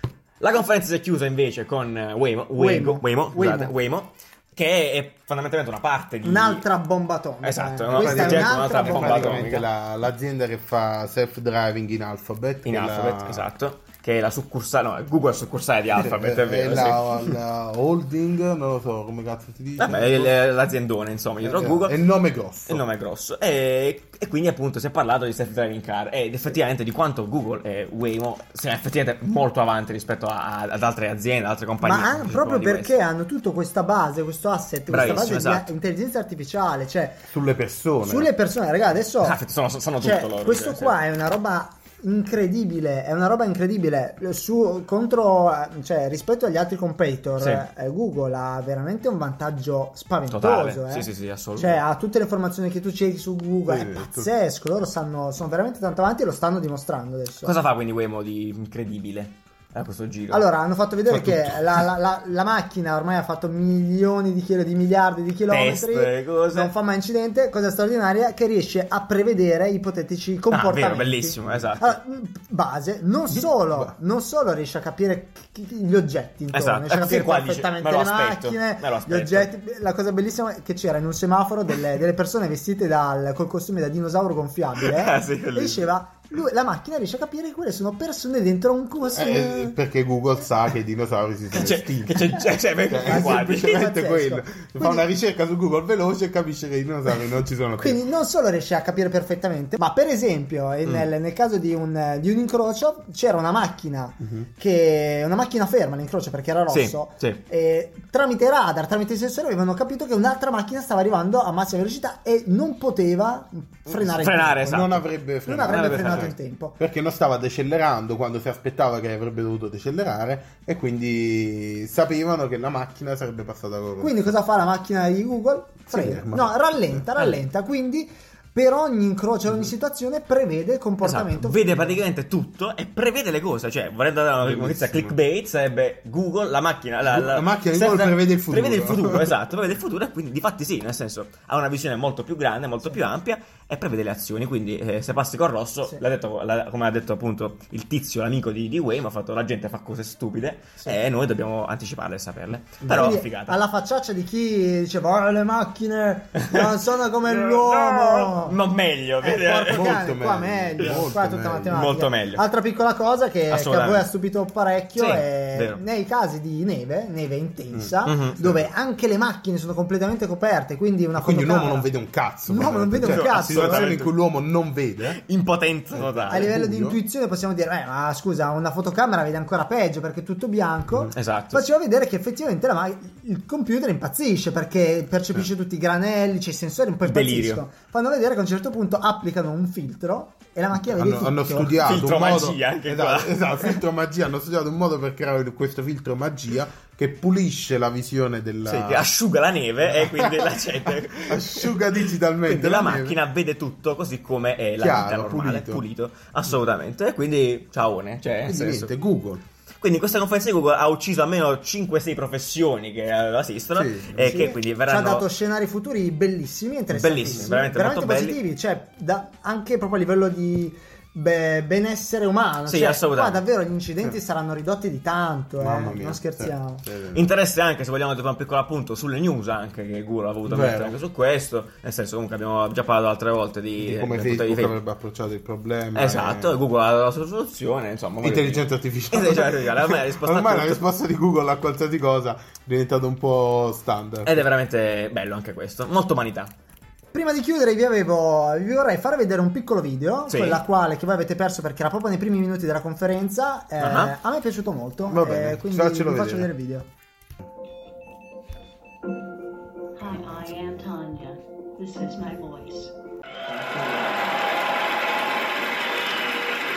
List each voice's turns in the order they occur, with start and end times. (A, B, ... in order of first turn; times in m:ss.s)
0:00.4-0:06.6 A
0:02.6-0:03.7 B
0:06.2-0:09.4 B
0:07.4-0:09.7 A
0:07.9-0:13.5 C
0:12.6-0:17.3 A
0:16.0-0:20.3 C
0:19.8-0:22.0 A
0:21.4-0:22.8 C
0:22.7-0:32.9 A
0:31.8-0:37.2 B
0:34.9-0:35.7 A
0:37.3-0:38.3 C
0:38.0-0:39.4 B
0:39.2-0:41.0 A
0:40.0-0:57.5 B
0:47.4-0:47.6 A
0:50.3-0:51.8 A
0:53.7-0:54.3 C
0:57.4-1:00.4 A
1:00.3-1:29.8 B
1:01.1-1:01.8 C
1:05.5-1:06.7 A
1:10.5-1:12.0 A
1:13.3-1:13.9 C
1:16.5-1:19.5 A
1:24.8-1:25.8 A
1:29.1-1:38.0 C
1:31.5-1:33.8 A
1:33.0-1:35.0 B
1:37.8-1:54.9 B
1:46.7-1:47.4 A
1:53.9-1:55.0 A
1:54.6-2:04.3 C
1:55.4-1:56.8 B
1:55.6-1:56.3 A
2:04.0-2:12.0 B
2:05.9-2:07.0 C
2:11.0-2:33.6 A
2:14.4-2:15.1 C
2:17.1-2:19.3 C
2:32.8-2:33.2 C
2:32.9-2:38.6 B
2:36.4-2:36.7 A
2:37.2-2:39.9 A
2:39.2-2:51.9 B
2:39.7-2:41.8 C
2:41.7-2:42.4 A
2:43.5-2:44.1 A
2:45.0-2:45.8 A
2:47.7-2:48.7 C
2:48.0-2:48.4 A
2:51.2-2:55.2 C
2:52.5-2:53.9 B
2:53.0-2:54.1 A
2:55.1-2:56.6 A
2:55.9-2:57.0 C
2:56.3-3:11.8 B
3:01.1-3:01.6 A
3:07.0-3:07.6 A
3:10.9-3:19.1 C
3:11.8-3:13.8 A
3:18.6-3:21.9 A
3:19.8-3:23.2 C
3:22.5-3:28.9 A
3:24.8-3:25.8 C
3:28.4-3:29.4 C
3:29.8-3:35.2 A
3:33.7-3:34.5 C
3:34.2-3:46.8 B
3:36.9-3:38.4 A
3:42.7-3:43.4 A
3:45.6-3:47.3 C
3:47.1-3:54.7 A
3:50.4-3:51.0 C
3:53.8-3:56.6 C
3:55.9-4:00.8 A
3:58.2-4:04.4 C
4:04.2-4:06.5 A
4:07.1-4:16.9 B
4:10.3-4:10.6 A
4:13.8-4:14.1 A
4:15.1-4:16.5 C
4:20.0-4:24.4 D